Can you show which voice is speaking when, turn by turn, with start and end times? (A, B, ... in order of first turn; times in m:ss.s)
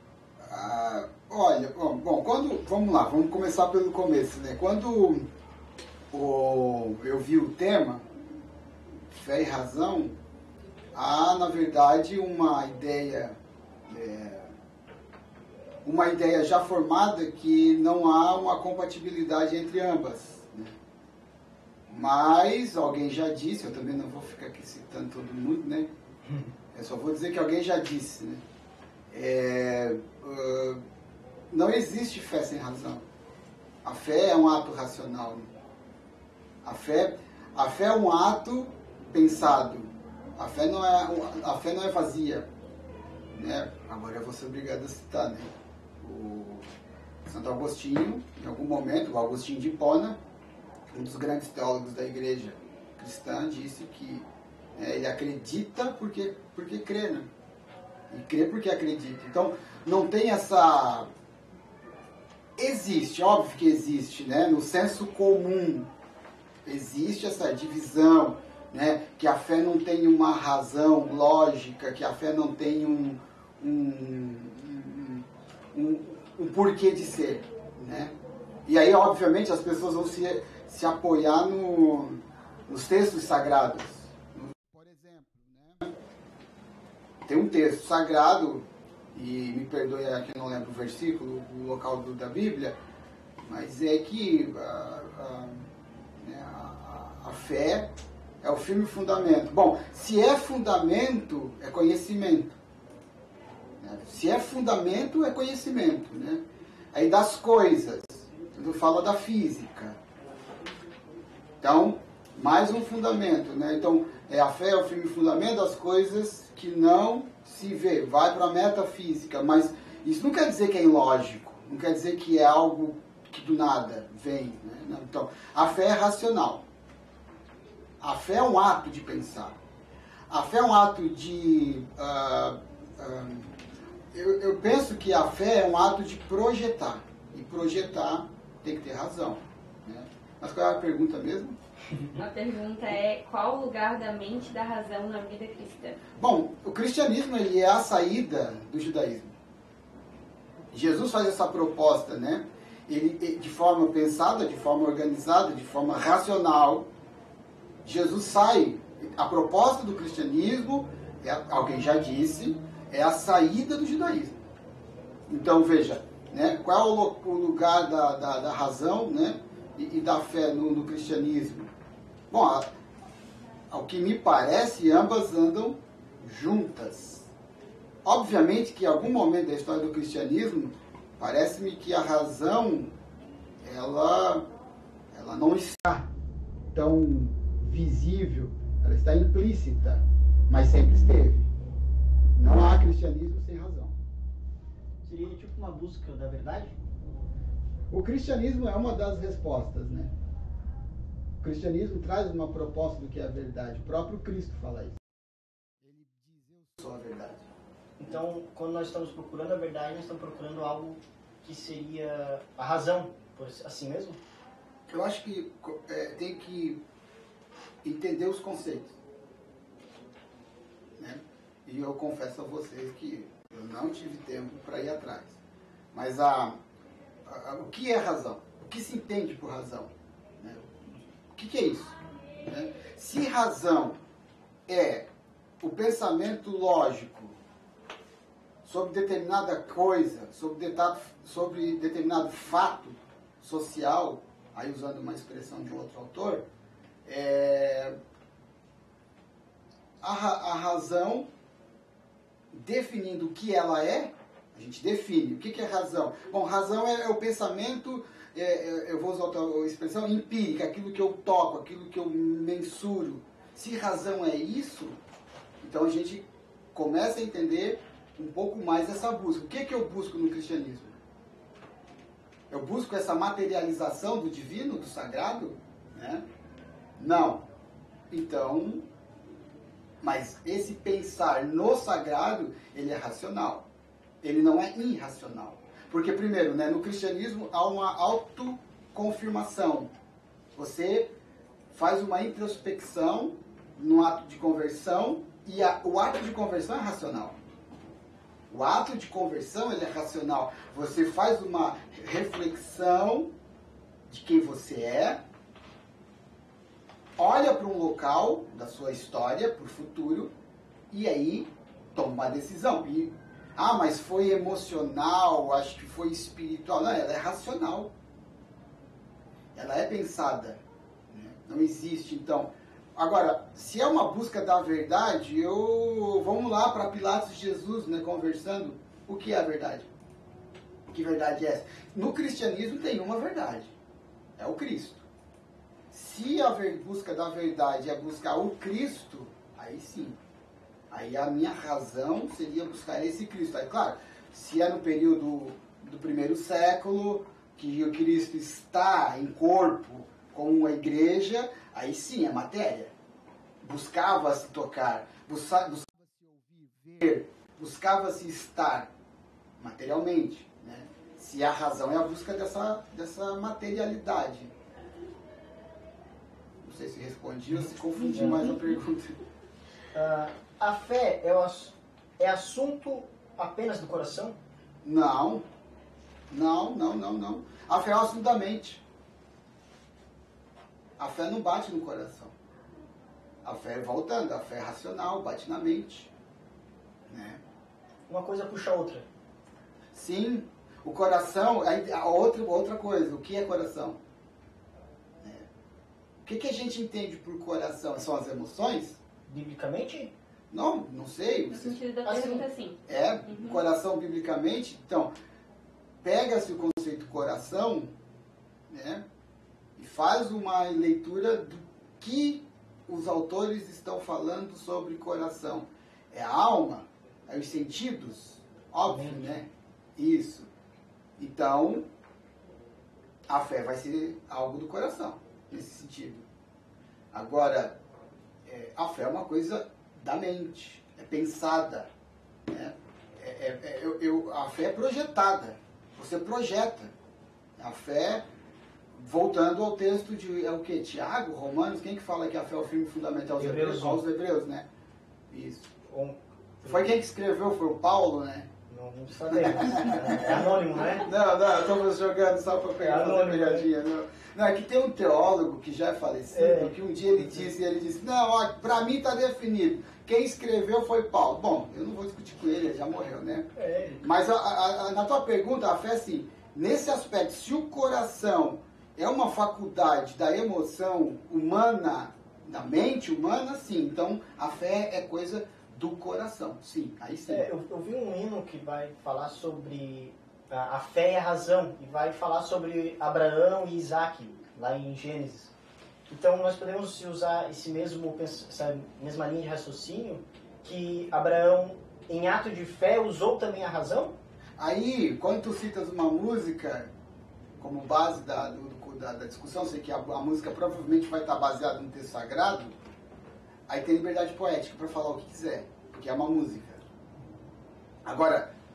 0:00.4-0:05.3 A
0:06.1-0:08.0 A
0:09.1-0:10.2 A
0:10.9-0:14.5 A
0:15.8-0:20.8 A
0:21.9-0:25.9 A
0:26.7-0:28.4 A
0:29.1-0:30.8 A
0:31.5-0:33.1 A
0:33.8-0:35.5 A
0:36.6-0:42.5 A
0:43.3-0:46.7 A
0:47.2-0:50.2 A
0:50.9-0:57.3 A
0:58.1-1:01.1 A
1:02.6-1:05.9 A
1:06.6-1:18.2 A
1:18.7-1:26.0 A
1:27.2-1:32.8 A
1:33.5-1:42.5 A
1:43.8-1:50.0 A
1:51.6-2:06.7 A
2:08.0-2:09.6 A
2:10.3-2:13.5 A
2:14.1-2:21.6 A
2:22.2-2:26.0 B
2:26.2-2:29.4 A
2:30.7-2:36.9 A
2:37.8-2:44.5 A
2:45.3-2:51.7 A
2:52.3-2:52.7 A
2:53.7-2:57.3 A
2:58.0-3:03.0 A
3:03.6-3:04.5 A
3:05.1-3:06.1 A
3:06.7-3:11.5 A
3:12.4-3:14.0 A
3:15.0-3:16.8 C
3:17.9-3:20.1 A
3:21.4-3:25.0 A
3:25.8-3:27.5 A
3:28.0-3:34.2 C
3:34.9-3:36.8 A
3:37.8-3:39.0 A
3:41.0-3:45.4 A
3:45.9-3:46.6 A
3:47.3-3:50.7 A
3:51.3-3:54.0 A
3:54.7-3:55.1 A
3:55.6-3:57.4 A
3:58.6-4:06.5 A
4:07.0-4:08.0 A
4:10.0-4:11.3 A
4:12.5-4:25.0 A
4:25.6-4:31.0 A
4:32.5-4:36.2 A
4:37.0-4:37.5 A
4:38.1-4:38.9 A
4:40.0-4:43.7 A
4:44.2-4:49.9 A
4:50.5-4:51.1 A
4:51.7-4:57.4 A
4:58.5-5:03.4 A
5:04.1-5:05.2 A
5:07.2-5:10.3 A
5:10.9-5:18.0 A
5:19.5-5:29.9 A
5:30.9-5:33.7 A
5:34.4-5:35.0 A
5:35.9-5:40.2 A
5:40.9-5:52.9 A
5:53.6-5:58.9 A
5:59.6-6:04.5 A
6:06.6-6:09.2 A
6:08.0-6:08.8 C
6:09.9-6:14.4 C
6:14.8-6:15.4 A
6:16.3-6:18.8 A
6:21.0-6:22.3 A
6:23.4-6:26.1 A
6:27.1-6:27.4 A
6:28.1-6:29.0 C
6:29.9-6:34.0 A
6:35.2-6:35.5 A
6:36.2-6:39.0 A
6:39.3-6:40.1 C
6:40.5-6:41.8 A
6:41.5-6:43.6 B
6:42.0-6:42.4 C
6:42.9-6:45.1 A
6:46.0-6:47.9 A
6:48.7-6:49.0 A
6:49.8-7:00.5 A
6:58.9-6:59.4 C
7:01.2-7:01.9 A
7:03.3-7:06.3 A
7:07.1-7:07.8 A
7:08.4-7:11.9 A
7:12.5-7:16.9 A
7:17.6-7:18.3 A
7:19.0-7:24.7 A
7:23.4-7:24.0 C
7:25.3-7:25.7 A
7:25.8-7:27.0 C
7:26.6-7:28.5 A
7:28.7-7:31.1 C
7:29.3-7:57.5 A
7:32.8-7:33.7 C
7:36.3-7:37.5 C
7:43.6-7:44.0 C
7:57.3-8:05.5 C
8:06.1-8:14.2 C
8:14.6-8:16.9 A
8:17.6-8:22.8 A
8:23.7-8:26.8 A
8:28.0-8:28.5 A